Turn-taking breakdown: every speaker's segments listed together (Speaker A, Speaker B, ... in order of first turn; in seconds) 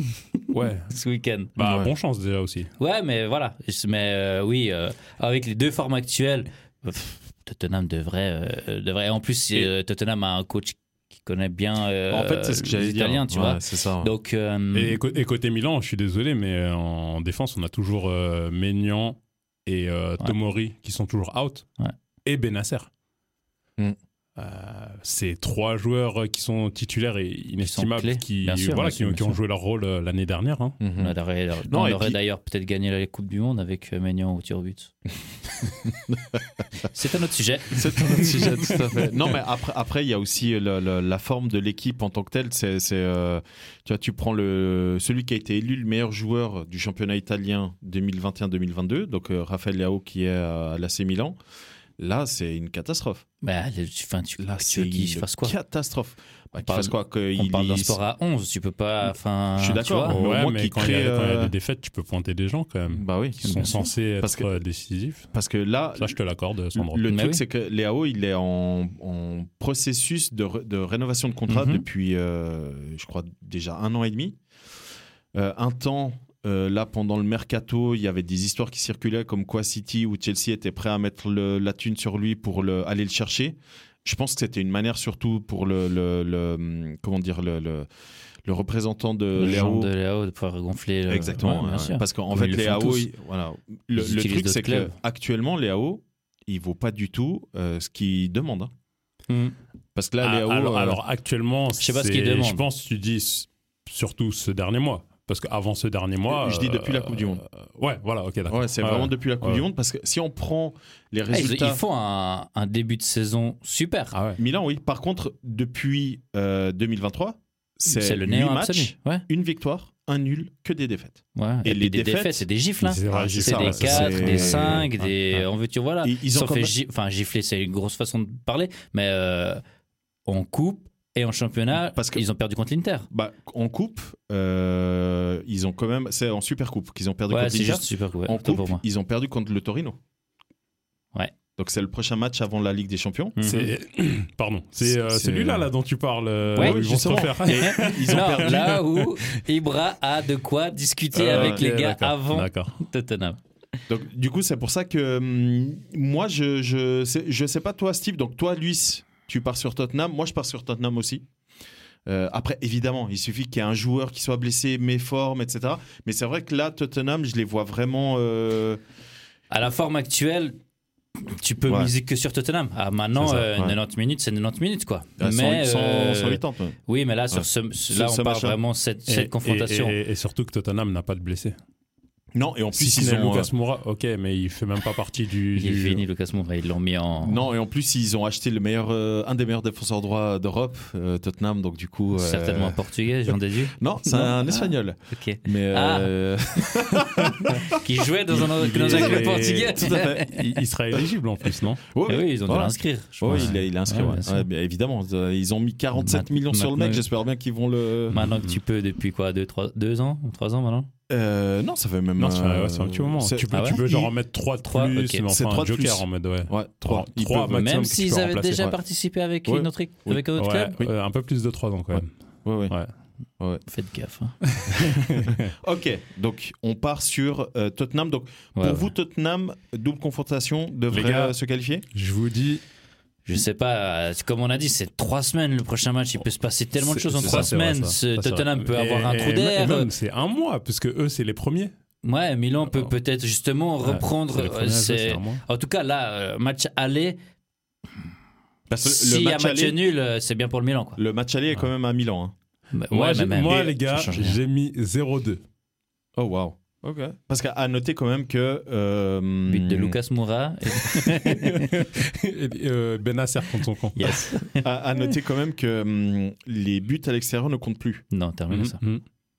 Speaker A: 0.5-0.9, 1.6-2.7, 14.7-21.7, 22.2-22.9, 24.4-30.8, 60.1-65.3, 66.0-67.0, 100.2-109.7, 114.1-114.4, 122.8-125.4, 143.4-149.4, 151.2-152.8, 179.1-181.6, 182.7-186.0, 198.3-201.8, 208.2-208.6, 212.2-218.8, 220.3-222.1, 224.5-225.5, 230.9-231.4, 231.9-232.6, 236.8-241.7, 243.8-245.4, 252.9-255.4, 260.9-264.2, 268.5-269.0
Speaker B: 0.9-1.5, 2.8-15.0, 27.6-29.4, 31.0-34.9, 36.8-38.8, 53.4-55.5, 56.6-60.2, 63.4-63.7, 67.0-67.4, 71.5-71.8, 89.4-93.1, 94.0-94.9, 99.3-99.6, 101.8-102.6, 111.3-114.2, 117.9-119.2, 121.4-129.6, 130.3-133.1, 137.3-138.8, 143.4-143.7, 146.6-153.4, 169.5-170.6, 171.2-180.0, 185.6-187.4, 192.1-196.1, 197.3-200.4, 202.1-204.5, 205.9-207.0, 208.1-210.9, 213.5-213.8, 214.7-215.3, 217.5-220.8, 223.7-224.4, 228.6-228.9, 233.3-239.9, 242.0-247.2, 248.8-251.0, 252.7-254.4, 259.5-261.8, 263.9-264.6, 268.1-268.8
Speaker C: 1.6-1.9, 12.1-14.1, 30.8-31.1, 31.7-32.2, 35.9-36.4, 37.7-51.4, 52.0-53.2, 54.4-58.0, 59.6-61.5, 62.9-64.5, 65.3-66.2, 66.8-74.4, 75.3-87.9, 88.5-89.9, 91.1-98.7, 100.0-101.0, 106.3-107.4, 108.5-111.8, 114.4-122.5, 123.1-124.9, 126.0-126.7, 131.9-132.2, 133.1-140.0, 141.6-143.4, 144.8-145.7, 146.6-148.8, 151.2-151.6, 153.9-161.2, 162.1-168.8, 171.7-171.9, 173.4-173.8, 175.2-176.8, 177.3-178.6, 182.3-183.5, 187.2-192.8, 193.8-197.6, 198.4-200.3, 201.8-208.2, 211.1-214.1, 215.3-217.7, 219.5-220.2, 222.0-222.8, 224.8-231.8, 237.2-237.5, 248.7-249.8, 251.0-252.3, 256.2-260.0, 264.6-268.1